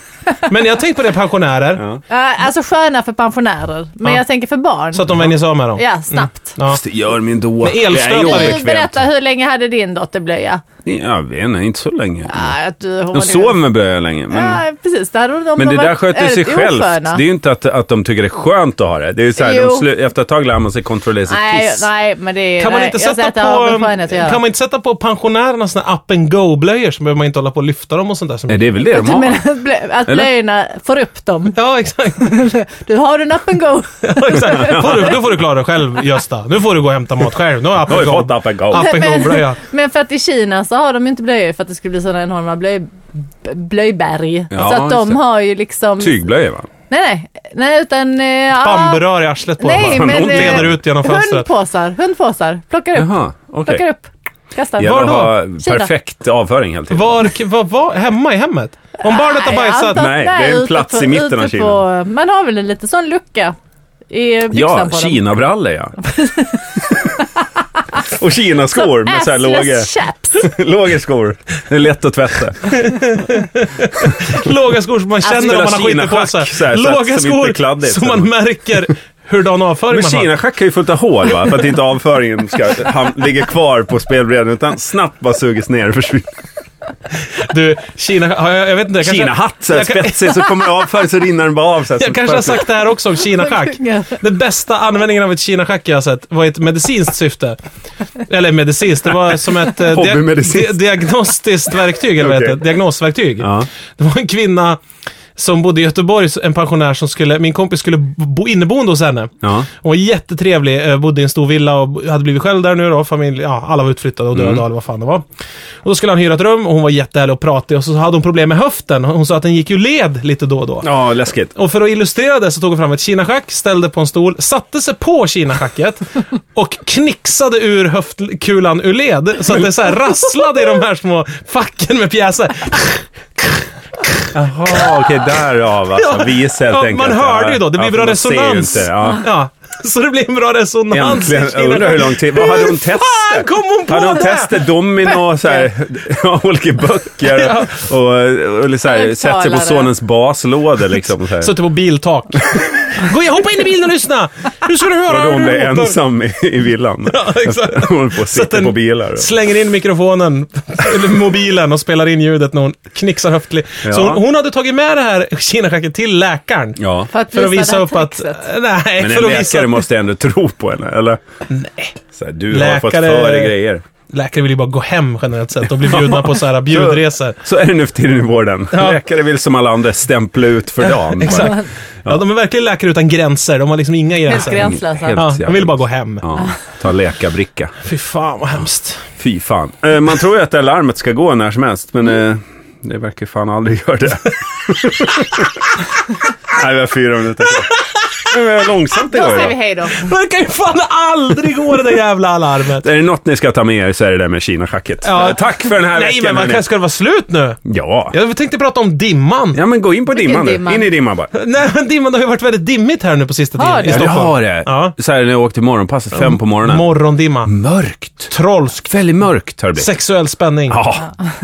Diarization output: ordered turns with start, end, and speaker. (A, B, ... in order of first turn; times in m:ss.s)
0:00.5-0:01.8 A
0:02.1-0:06.5 B
0:04.9-0:06.8 A
0:06.7-0:09.0 C
0:07.6-0:08.6 A
0:08.1-0:10.6 B
0:10.8-0:12.5 C
0:12.3-0:13.6 B
0:13.1-0:14.6 C
0:14.3-0:17.2 B
0:15.6-0:21.9 C
0:19.4-0:19.9 B
0:21.3-0:24.4 B
0:22.6-0:28.6 A
0:28.5-0:29.4 C
0:28.9-0:31.6 B
0:31.6-0:32.4 A
0:32.2-0:35.0 B
0:34.0-0:39.6 A
0:34.5-0:35.2 C
0:37.9-0:38.9 C
0:38.7-0:46.2 B
0:44.5-0:45.2 C
0:46.0-0:46.7 C
0:46.9-0:49.0 B
0:48.6-0:51.5 A
0:49.6-0:55.9 B
0:49.8-0:50.8 C
0:53.0-0:53.8 C
0:54.8-0:57.2 C
0:54.8-0:55.3 A
0:56.9-1:00.0 A
0:59.0-1:03.6 B
0:59.9-1:01.8 C
1:04.1-1:05.2 B
1:04.5-1:06.0 C
1:06.0-1:07.2 B
1:08.0-1:12.8 C
1:08.7-1:10.5 B
1:12.7-1:20.3 A
1:14.0-1:14.4 C
1:15.2-1:15.6 B
1:15.2-1:18.3 C
1:19.9-1:26.4 C
1:27.5-1:30.8 A
1:29.0-1:32.7 C
1:32.0-1:37.6 A
1:33.2-1:34.2 B
1:38.3-1:44.8 A
1:39.8-1:40.8 C
1:42.2-1:42.6 C
1:43.4-1:43.7 C
1:45.4-1:55.2 A
1:49.4-1:49.7 C
1:54.4-1:54.6 C
1:55.8-2:00.9 A
2:00.8-2:01.5 C
2:01.5-2:15.0 A
2:14.3-2:19.2 C
2:16.0-2:24.6 A
2:20.9-2:31.5 C
2:27.3-2:27.8 A
2:28.8-2:29.9 B
2:31.4-2:36.0 A
2:35.1-2:39.3 C
2:37.1-2:49.8 A
2:43.8-2:44.2 C
2:46.8-2:47.1 C
2:47.1-2:48.4 B
2:49.0-2:51.2 C
2:51.5-2:52.0 A
2:52.1-2:53.8 C
2:52.5-2:53.5 A
2:54.1-2:57.4 A
2:56.7-3:02.2 C
2:58.7-2:59.0 A
3:00.9-3:06.3 A
3:04.3-3:05.2 B
3:04.4-3:07.7 C
3:07.8-3:09.1 A
3:09.2-3:15.7 C
3:16.5-3:19.5 C
3:19.1-3:20.0 B
3:19.1-3:22.9 A
3:22.8-3:26.6 C
3:25.0-3:29.6 A
3:27.6-3:28.1 C
3:29.5-3:31.3 C
3:30.1-3:30.9 B
3:31.3-3:35.0 A
3:33.6-3:34.2 B
3:33.9-3:36.9 C
3:36.2-3:37.6 A
3:37.4-3:38.3 C
3:38.3-3:38.9 A
3:38.9-3:39.9 C
3:39.8-3:40.8 A
3:40.7-3:41.1 C